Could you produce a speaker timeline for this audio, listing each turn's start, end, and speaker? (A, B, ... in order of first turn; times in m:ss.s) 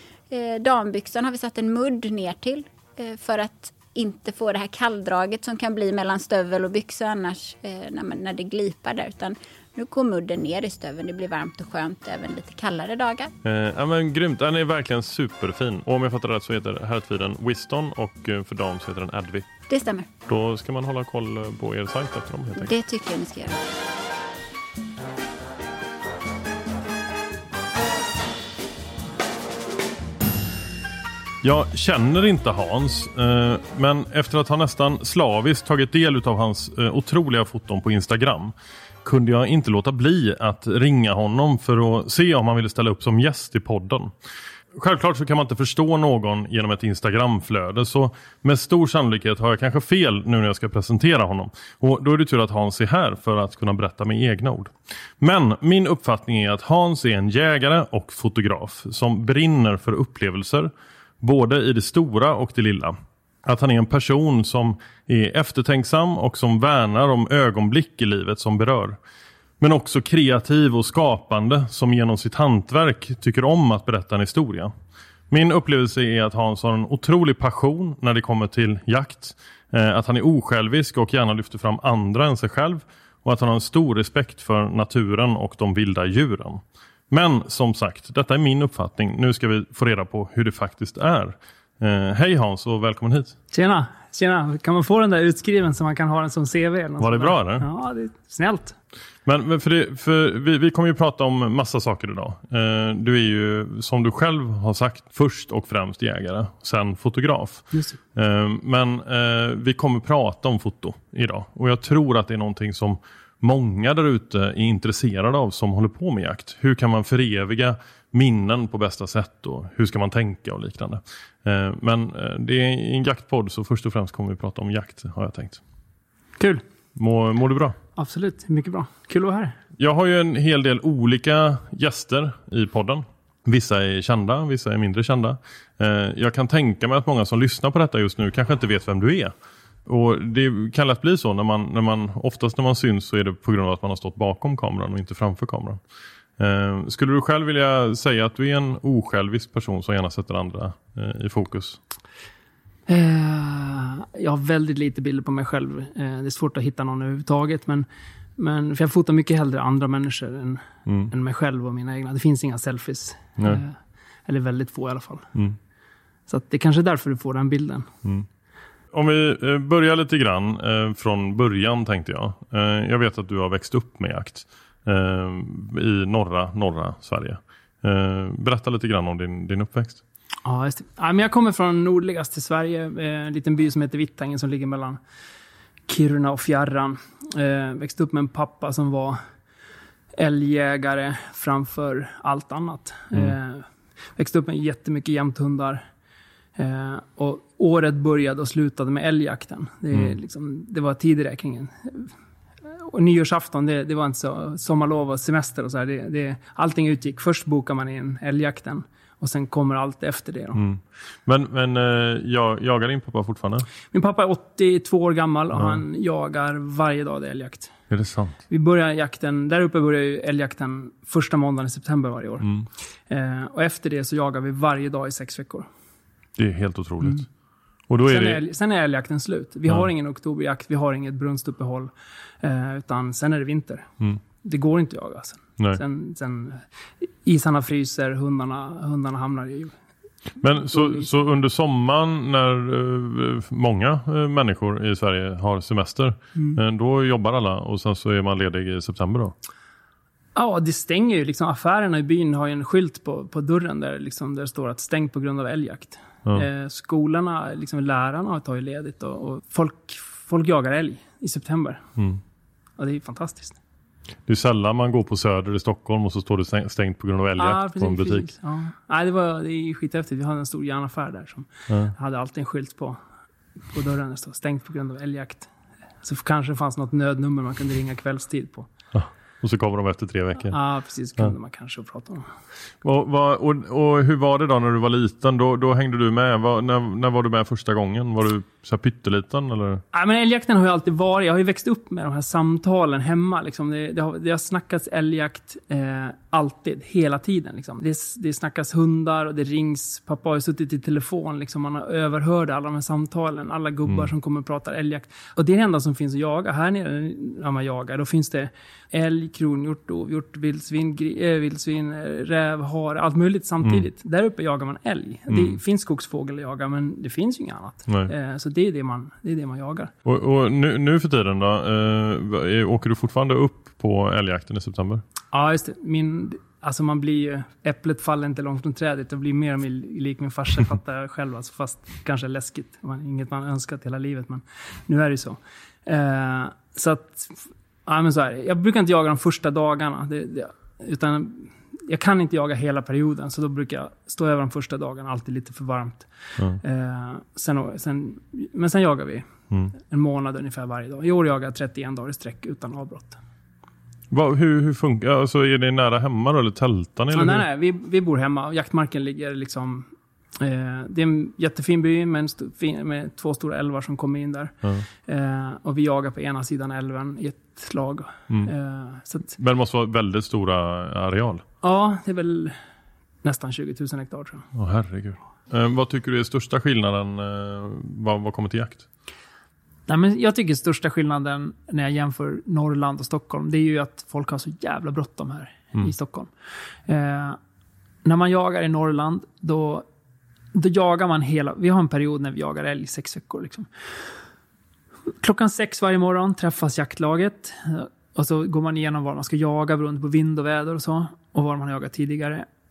0:00.3-0:13.3 A
0:13.4-0:19.5 B
0:19.7-0:20.1 A
0:20.2-0:22.7 B
0:22.6-0:23.6 A
0:31.4-0:38.5 B
0:39.0-0:44.1 B
0:44.7-1:09.0 B
1:09.6-1:14.7 B
1:15.3-1:33.3 B
1:33.5-1:38.8 C
1:37.0-1:37.6 B
1:39.2-2:05.6 B
2:06.9-2:07.8 B
2:08.0-2:09.6 C
2:09.8-2:19.3 B
2:19.8-2:25.8 B
2:26.4-2:31.8 B
2:32.9-2:37.8 C
2:38.4-2:45.3 C
2:40.8-2:41.1 B
2:46.3-2:47.9 C
2:48.9-3:00.0 B
3:00.4-3:05.0 C
3:05.9-3:09.2 C
3:10.2-3:15.8 C
3:16.6-3:22.1 C
3:22.7-3:30.6 C
3:30.5-3:33.7 B
3:33.9-3:37.7 C
3:37.9-3:38.4 B
3:38.5-3:42.5 C
3:42.4-3:42.7 B
3:43.1-3:45.7 C
3:46.4-3:47.2 B
3:47.9-3:48.4 B
3:48.0-3:53.9 C
3:54.4-3:56.6 C
3:57.2-3:59.7 C
4:00.4-4:09.3 B
4:00.7-4:01.1 C
4:10.3-4:21.8 C
4:22.8-4:23.6 C
4:24.2-4:28.3 B
4:27.4-4:33.0 C
4:33.7-4:35.5 C
4:36.0-4:38.7 C
4:38.9-4:40.6 B
4:40.5-4:42.3 C
4:42.8-4:49.8 B
4:49.9-5:19.9 C
5:15.3-5:15.6 B
5:20.0-5:25.0 B
5:25.3-5:53.2 C
5:54.1-5:57.4 B
5:57.1-5:59.9 C
6:00.4-6:09.3 C
6:09.4-6:11.4 B
6:11.6-6:12.6 C
6:13.2-6:14.5 C
6:14.5-6:18.8 B
6:19.9-6:26.3 C
6:26.9-6:27.4 C
6:28.0-6:29.8 C
6:30.5-6:33.7 C
6:35.2-6:42.4 C